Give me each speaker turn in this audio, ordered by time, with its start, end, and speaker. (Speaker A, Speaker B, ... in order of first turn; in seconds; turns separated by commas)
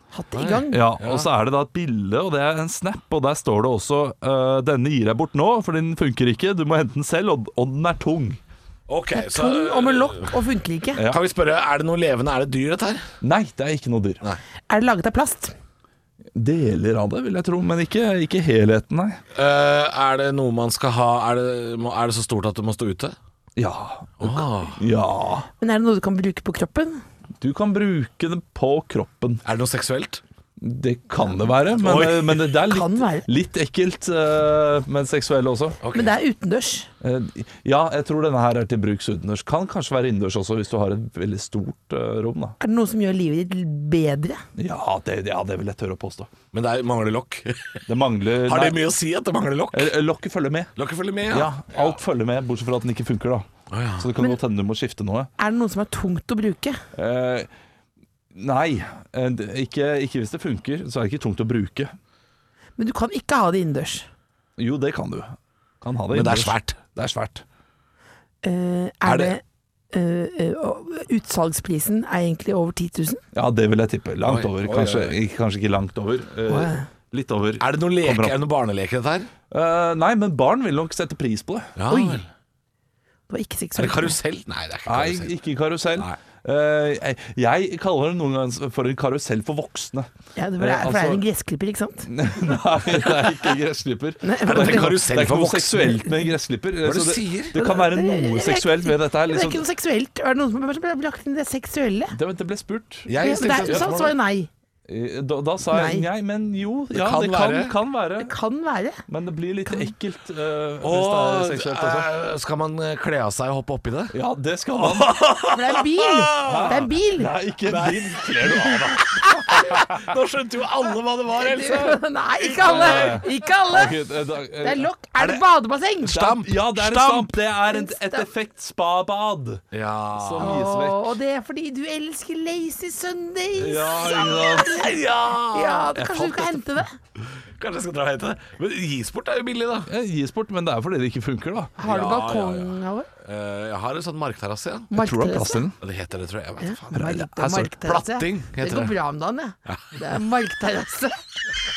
Speaker A: 0.1-0.8, Speaker B: 0.3-1.3, Speaker C: 0.7-8.4, Speaker B: 8.9-10.4, Speaker A: 9.1-11.1, Speaker B: 11.1-13.0, Speaker C: 13.2-14.2, Speaker A: 14.7-15.5, Speaker C: 16.3-19.2, Speaker B: 19.3-23.1, Speaker C: 23.6-25.5, Speaker B: 24.2-24.8, Speaker A: 25.6-27.0, Speaker C: 27.4-29.4, Speaker B: 29.4-30.2, Speaker C: 30.6-35.8, Speaker B: 31.8-32.5, Speaker A: 32.6-33.3, Speaker B: 35.8-36.1, Speaker A: 35.9-36.9, Speaker C: 37.0-42.5, Speaker A: 42.6-44.4, Speaker C: 44.5-46.3, Speaker B: 46.5-47.8, Speaker C: 47.9-48.9, Speaker B: 48.4-49.9, Speaker C: 49.7-50.7, Speaker B: 50.8-51.9, Speaker C: 51.3-55.3, Speaker B: 53.7-54.1, Speaker A: 55.4-56.8, Speaker C: 56.9-57.5, Speaker C: 58.3-61.9, Speaker A: 62.8-64.0, Speaker C: 64.6-67.4, Speaker B: 66.1-66.8, Speaker A: 68.4-69.4, Speaker B: 69.0-69.3, Speaker A: 69.9-73.2, Speaker C: 73.3-78.4, Speaker B: 74.2-75.1, Speaker A: 76.5-76.8, Speaker B: 77.6-79.3, Speaker C: 79.5-81.8, Speaker B: 81.8-82.2, Speaker A: 81.9-82.2, Speaker A: 83.3-84.2, Speaker B: 83.8-85.3, Speaker C: 84.8-91.2, Speaker A: 90.3-92.1, Speaker C: 92.0-99.6, Speaker A: 94.2-95.1, Speaker B: 94.4-96.0, Speaker B: 96.8-97.5, Speaker A: 97.5-102.2, Speaker C: 102.1-104.0, Speaker B: 103.1-104.2, Speaker A: 103.1-104.5, Speaker C: 104.9-108.3, Speaker A: 105.7-106.1, Speaker B: 106.9-107.7, Speaker A: 108.2-109.0, Speaker C: 109.1-112.1, Speaker A: 109.7-109.9, Speaker B: 110.8-114.1, Speaker C: 114.1-115.2, Speaker B: 114.8-116.8, Speaker A: 115.4-117.3, Speaker C: 116.4-119.6, Speaker B: 117.7-123.2, Speaker A: 121.3-124.0, Speaker C: 122.6-125.4, Speaker A: 124.6-126.2, Speaker B: 126.0-127.3, Speaker C: 126.0-131.2, Speaker A: 127.7-128.3, Speaker B: 129.7-130.6, Speaker A: 130.4-134.9, Speaker C: 133.6-134.9, Speaker B: 134.6-136.0, Speaker A: 135.5-137.0, Speaker C: 135.9-136.6, Speaker B: 137.6-139.9, Speaker C: 139.9-141.8, Speaker A: 141.8-143.1, Speaker B: 141.8-144.9, Speaker A: 144.9-145.7, Speaker C: 144.9-145.8, Speaker B: 145.8-146.9, Speaker A: 146.6-151.2, Speaker C: 146.9-147.8, Speaker B: 147.8-148.9, Speaker B: 149.7-150.0